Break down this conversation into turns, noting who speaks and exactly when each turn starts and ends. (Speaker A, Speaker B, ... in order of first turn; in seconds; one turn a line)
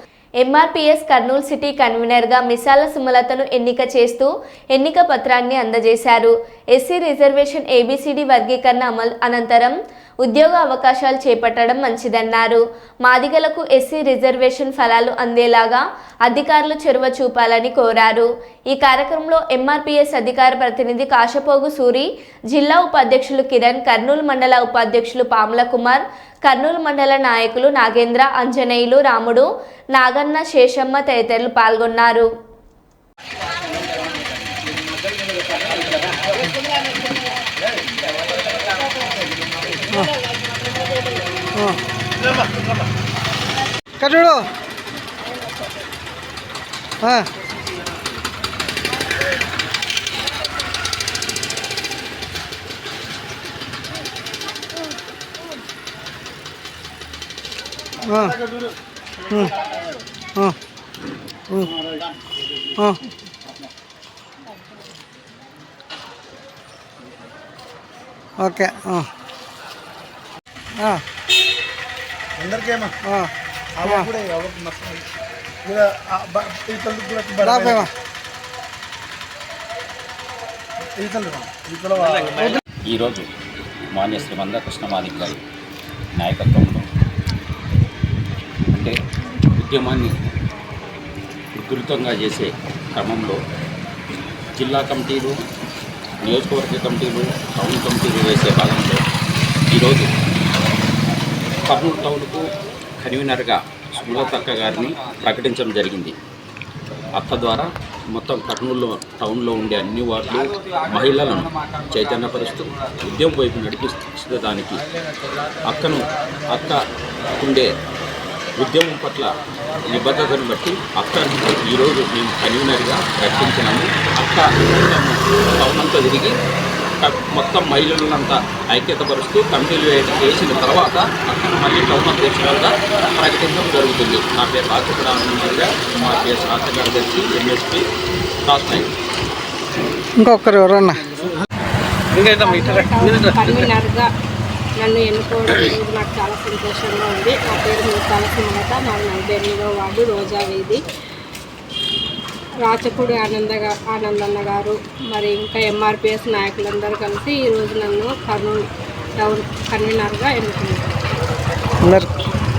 Speaker A: 0.4-32.3
Speaker B: 44.0-44.5
Speaker B: 47.0-47.3
Speaker B: 58.1-58.3
Speaker B: 68.4-69.1
Speaker B: 70.8-71.0
Speaker C: 72.4-72.9
Speaker C: 73.8-75.1
Speaker C: 75.6-77.9
Speaker B: 77.6-77.9
Speaker C: 81.0-82.5
Speaker D: 82.9-83.3
Speaker D: 83.9-85.4
Speaker D: 86.2-86.9
Speaker D: 88.7-89.0
Speaker D: 89.5-90.1
Speaker D: 91.5-93.4
Speaker D: 94.5-95.4
Speaker D: 96.2-99.0
Speaker D: 99.7-100.1
Speaker D: 101.7-102.5
Speaker D: 103.0-106.2
Speaker D: 107.1-114.8
Speaker D: 115.6-116.8
Speaker D: 117.3-117.7
Speaker D: 118.5-126.3
Speaker D: 127.0-137.9
Speaker D: 138.4-138.9
Speaker B: 140.2-141.0
Speaker E: 142.1-144.1
Speaker E: 144.8-150.8
Speaker E: 152.6-158.6
Speaker E: 159.2-160.9
Speaker B: 161.8-162.1